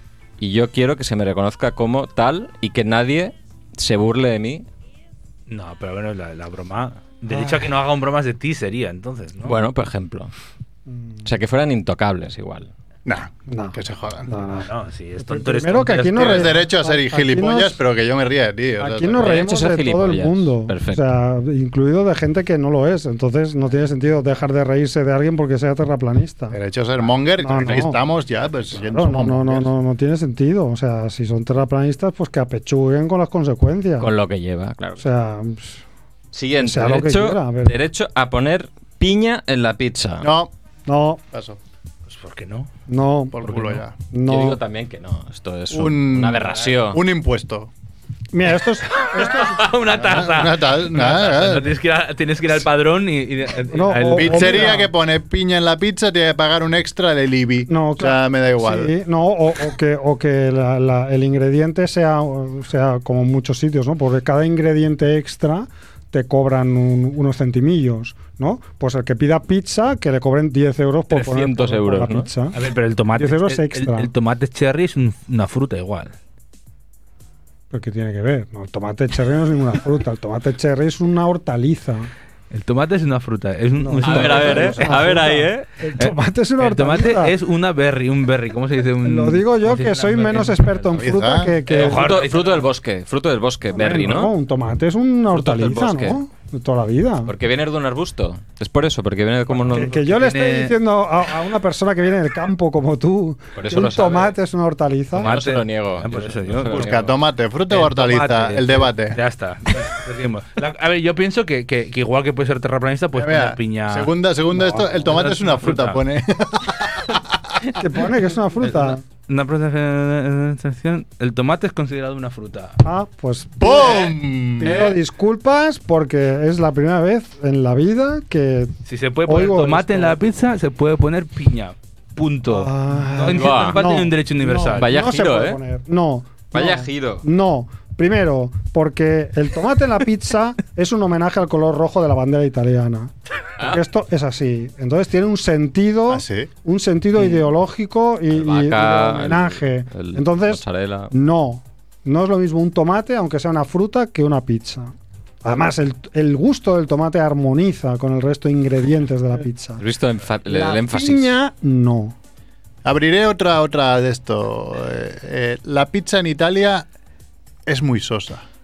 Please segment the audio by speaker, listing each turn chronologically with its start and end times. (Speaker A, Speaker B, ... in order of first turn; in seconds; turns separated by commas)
Speaker A: 0.4-4.7, Speaker B: 5.5-9.6, Speaker C: 7.3-7.7, Speaker A: 9.4-10.3, Speaker C: 10.9-11.3, Speaker A: 11.2-12.7, Speaker D: 13.1-14.3, Speaker C: 13.5-17.8, Speaker B: 14.6-16.5, Speaker D: 16.1-19.5, Speaker C: 18.8-26.6, Speaker A: 19.2-21.1, Speaker D: 26.5-29.7, Speaker C: 27.4-28.0, Speaker C: 28.7-34.1, Speaker A: 34.0-35.0, Speaker C: 35.0-35.8, Speaker A: 36.3-40.3, Speaker C: 36.6-37.8, Speaker D: 40.2-40.5, Speaker C: 40.9-41.2, Speaker D: 41.3-41.6, Speaker B: 42.1-42.7, Speaker C: 42.9-43.4, Speaker D: 43.3-44.0, Speaker B: 43.4-43.8, Speaker C: 44.1-44.6, Speaker A: 44.3-47.0, Speaker D: 45.7-47.7, Speaker C: 48.3-49.7, Speaker B: 49.0-54.8, Speaker D: 49.9-51.7, Speaker C: 53.7-54.9, Speaker D: 54.1-58.9, Speaker C: 57.7-72.6, Speaker A: 71.1-72.3, Speaker B: 72.5-76.2, Speaker C: 73.2-74.1, Speaker C: 77.7-82.1, Speaker B: 82.5-85.1, Speaker C: 83.8-87.4, Speaker A: 84.0-85.7, Speaker B: 86.0-90.9, Speaker C: 89.0-92.2, Speaker D: 90.9-91.6, Speaker A: 91.7-94.3, Speaker B: 91.8-92.7, Speaker C: 93.7-97.3, Speaker A: 95.3-96.2, Speaker A: 97.3-99.9, Speaker B: 99.5-100.8, Speaker C: 99.7-105.3, Speaker A: 103.6-104.3, Speaker B: 105.2-106.9, Speaker A: 105.2-107.2, Speaker D: 106.6-109.2, Speaker B: 107.7-114.1, Speaker D: 113.2-117.4, Speaker C: 114.5-114.9, Speaker B: 114.9-116.0, Speaker C: 117.8-119.0, Speaker B: 118.6-122.8, Speaker C: 122.8-128.8, Speaker D: 123.6-124.8, Speaker B: 128.9-134.9, Speaker C: 129.3-130.2, Speaker C: 132.5-154.9, Speaker A: 133.3-133.8, Speaker A: 134.8-135.6, Speaker A: 136.5-137.2, Speaker A: 143.6-143.8, Speaker D: 146.1-146.5, Speaker A: 147.2-147.5, Speaker A: 148.3-151.1, Speaker C: 155.4-159.8, Speaker A: 159.8-161.4, Speaker C: 160.5-162.2, Speaker D: 162.8-166.9, Speaker D: 167.7-168.4